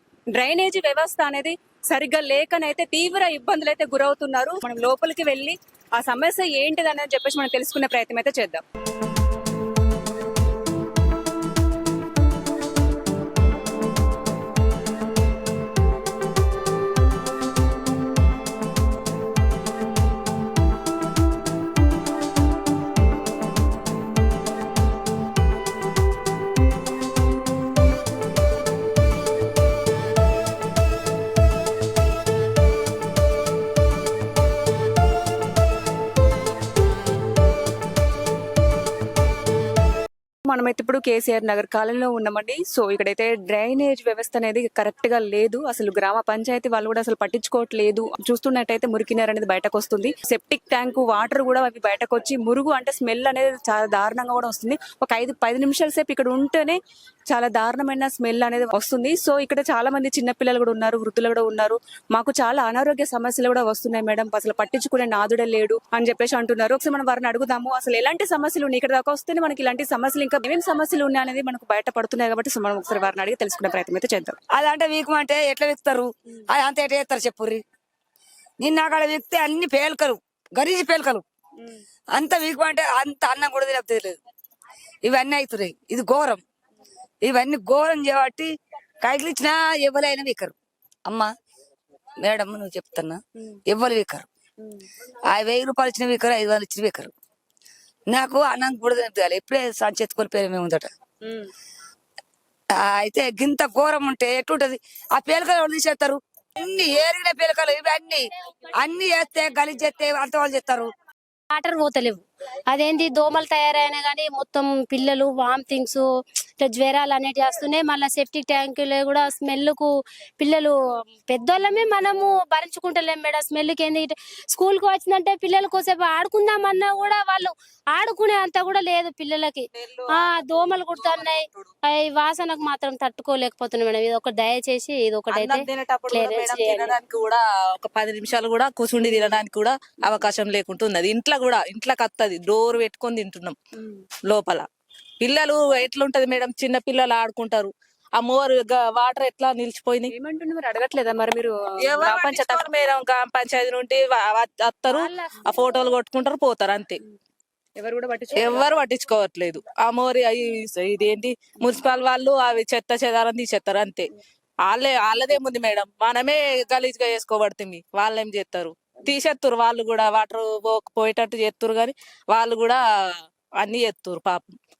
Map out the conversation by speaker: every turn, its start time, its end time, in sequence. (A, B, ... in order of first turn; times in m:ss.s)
0:00.3-0:08.6 A
0:40.5-0:56.8 A
0:57.3-1:14.4 A
1:14.5-1:17.6 B
1:18.6-1:21.2 B
1:22.1-1:24.2 B
1:25.0-1:26.4 B
1:27.2-1:30.5 B
1:31.0-1:31.3 B
1:32.2-1:34.3 B
1:34.6-1:34.9 A
1:35.3-1:37.1 B
1:38.1-1:40.9 B
1:41.2-1:41.5 A
1:42.7-1:50.9 B
1:51.5-1:56.0 C
1:56.6-2:17.0 C
2:09.8-2:11.7 D
2:15.3-2:23.6 D
2:19.0-2:19.3 A
2:24.3-2:24.7 D
2:25.2-2:30.1 D
2:30.1-2:32.7 A
2:31.8-2:37.0 D
2:35.0-2:35.7 C
2:37.8-2:38.8 A
2:38.3-2:44.1 D
2:44.6-2:54.6 D